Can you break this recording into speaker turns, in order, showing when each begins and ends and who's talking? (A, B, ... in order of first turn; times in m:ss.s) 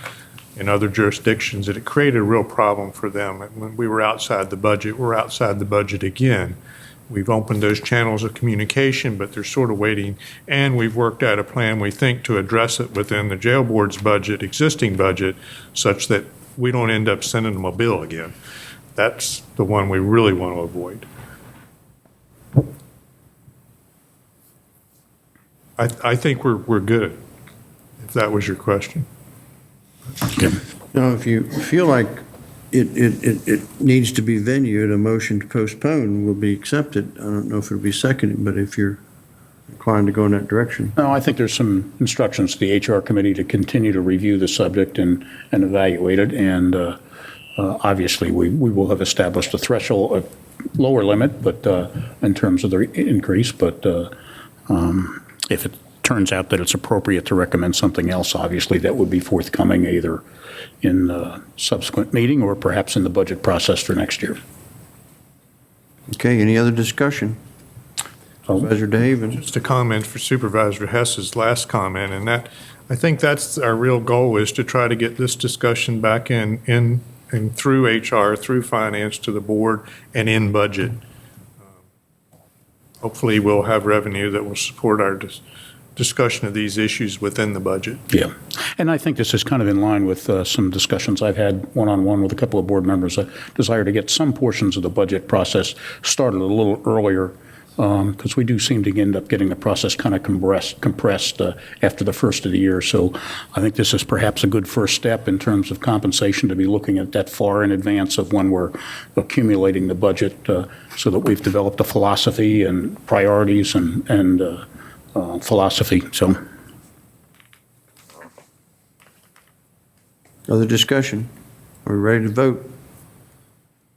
0:00.6-0:06.6 A
0:07.1-0:18.3 A
0:19.0-0:21.1 A
0:25.8-0:27.2 A
0:28.0-0:29.1 A
0:30.9-0:39.0 B
0:39.7-0:41.0 B
0:41.0-0:47.0 C
0:47.6-0:54.1 C
0:54.7-1:00.2 C
1:00.8-1:04.4 C
1:06.1-1:07.4 B
1:08.5-1:09.4 B
1:09.4-1:21.0 A
1:23.0-1:25.4 A
1:26.0-1:28.0 A
1:28.1-1:56.4 C
2:00.5-2:01.3 B
2:01.8-2:02.7 B